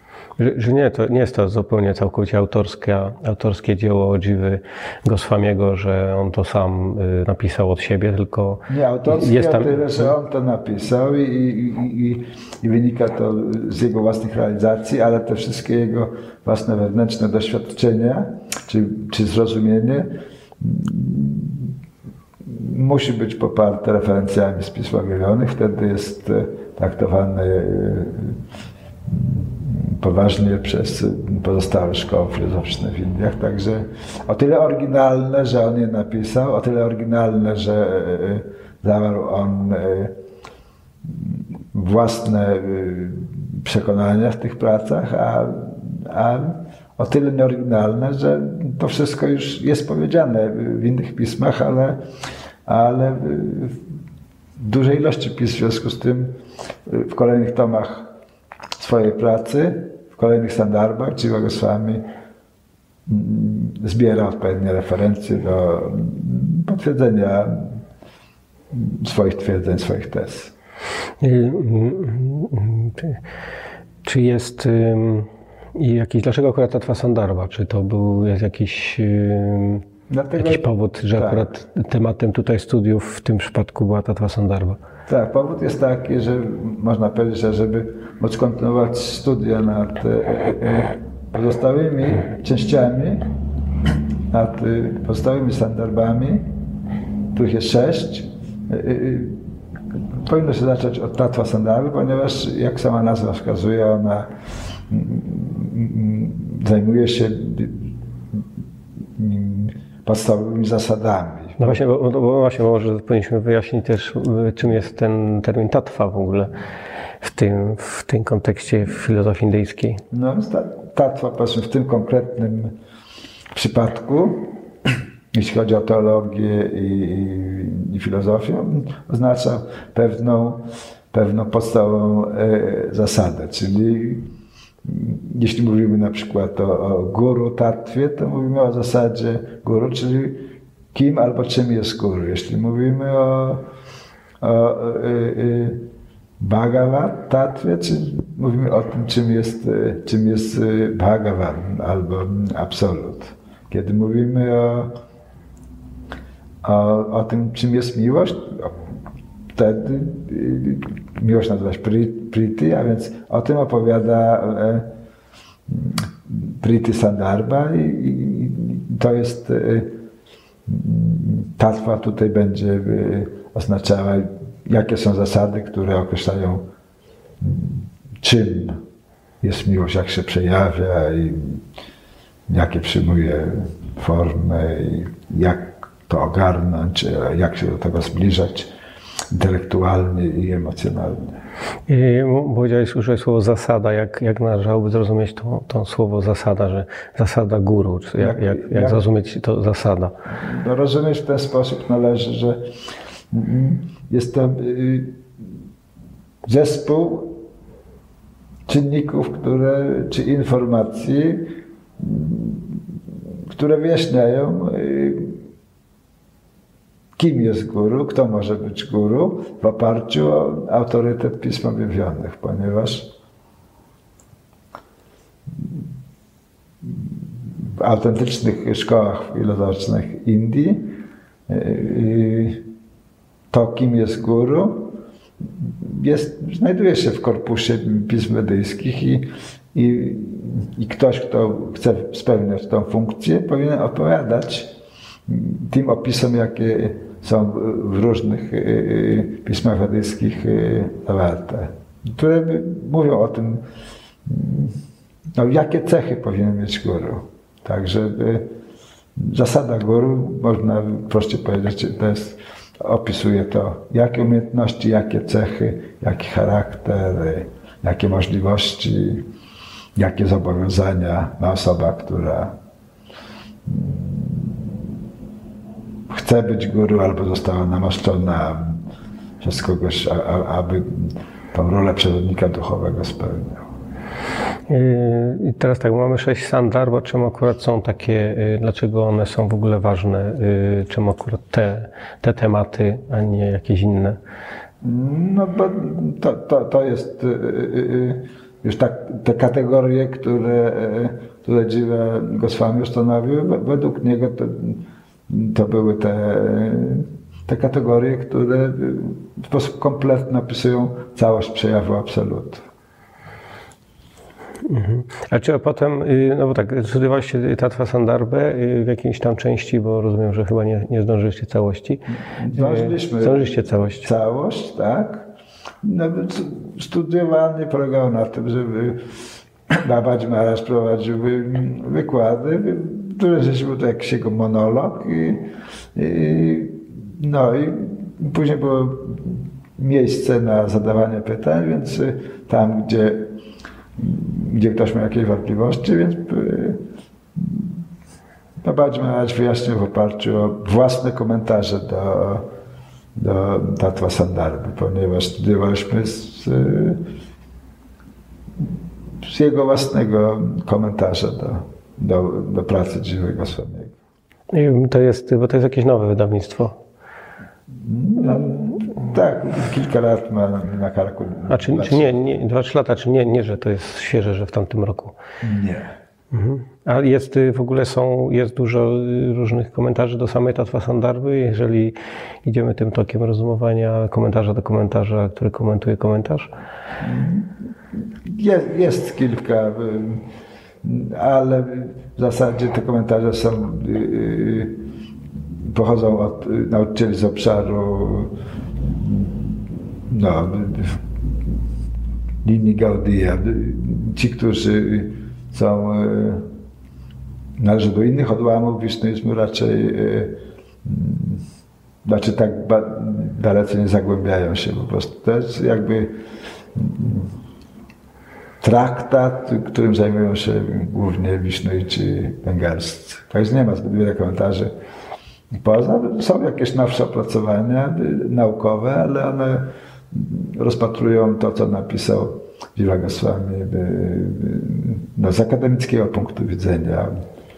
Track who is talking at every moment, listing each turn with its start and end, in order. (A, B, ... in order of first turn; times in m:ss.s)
0:00.4-0:10.1 A
0:08.7-0:21.7 B
0:22.4-0:28.4 B
0:29.1-0:40.2 B
0:41.0-0:52.0 B
0:52.7-0:53.8 B
0:54.6-0:58.1 B
0:58.8-1:02.1 B
1:03.1-1:07.8 B
1:08.7-1:10.5 B
1:11.2-1:13.2 A
1:14.0-1:19.8 A
1:20.1-1:21.5 B
1:20.4-1:24.8 A
1:25.1-1:33.3 B
1:33.9-1:36.5 B
1:37.3-1:39.4 B
1:40.2-1:44.3 B
1:44.9-1:48.4 B
1:49.2-1:51.8 B
1:51.6-1:56.5 A
1:57.2-2:00.0 A
2:00.1-2:02.8 B
2:03.5-2:04.6 B
2:05.3-2:14.3 B
2:14.8-2:23.7 B
2:24.4-2:25.9 B
2:26.4-2:35.0 B
2:36.6-2:38.8 B
2:39.6-2:44.9 B
2:45.7-2:50.0 B
2:50.7-2:56.7 B
2:57.4-2:58.8 B
2:59.4-3:01.6 B
3:02.5-3:08.7 B
3:09.3-3:11.4 B
3:11.9-3:20.2 A
3:18.2-3:19.0 B
3:20.3-3:22.7 B
3:23.3-3:25.2 B
3:26.4-3:27.4 B
3:28.7-3:33.0 B
3:33.5-3:35.4 B
3:37.2-3:43.1 B
3:46.8-3:52.7 B
3:53.5-4:04.8 B
4:05.3-4:13.6 B
4:14.3-4:14.8 B
4:15.3-4:18.5 B
4:19.2-4:29.3 B
4:30.0-4:32.6 B
4:33.7-4:34.8 B
4:36.1-4:38.8 B
4:39.4-4:43.7 B
4:44.7-4:54.2 A
4:54.8-5:12.6 B
5:14.6-5:24.1 A
5:22.3-5:25.3 B
5:25.8-5:29.0 B
5:29.7-5:43.4 B
5:44.0-5:47.8 B
5:48.6-5:52.5 B
5:53.2-5:57.0 B
5:59.2-6:04.0 B
6:04.5-6:06.8 A
6:07.7-6:12.1 B
6:08.2-6:08.9 A
6:11.5-6:15.2 A
6:15.4-6:16.0 B
6:16.3-6:26.5 A
6:27.0-6:30.2 B
6:30.8-6:34.8 B
6:35.6-6:41.6 B
6:42.4-6:46.5 B
6:47.6-6:51.4 B
6:52.0-6:56.2 B
6:56.7-6:57.3 B
6:58.6-7:04.7 B
7:05.5-7:17.1 B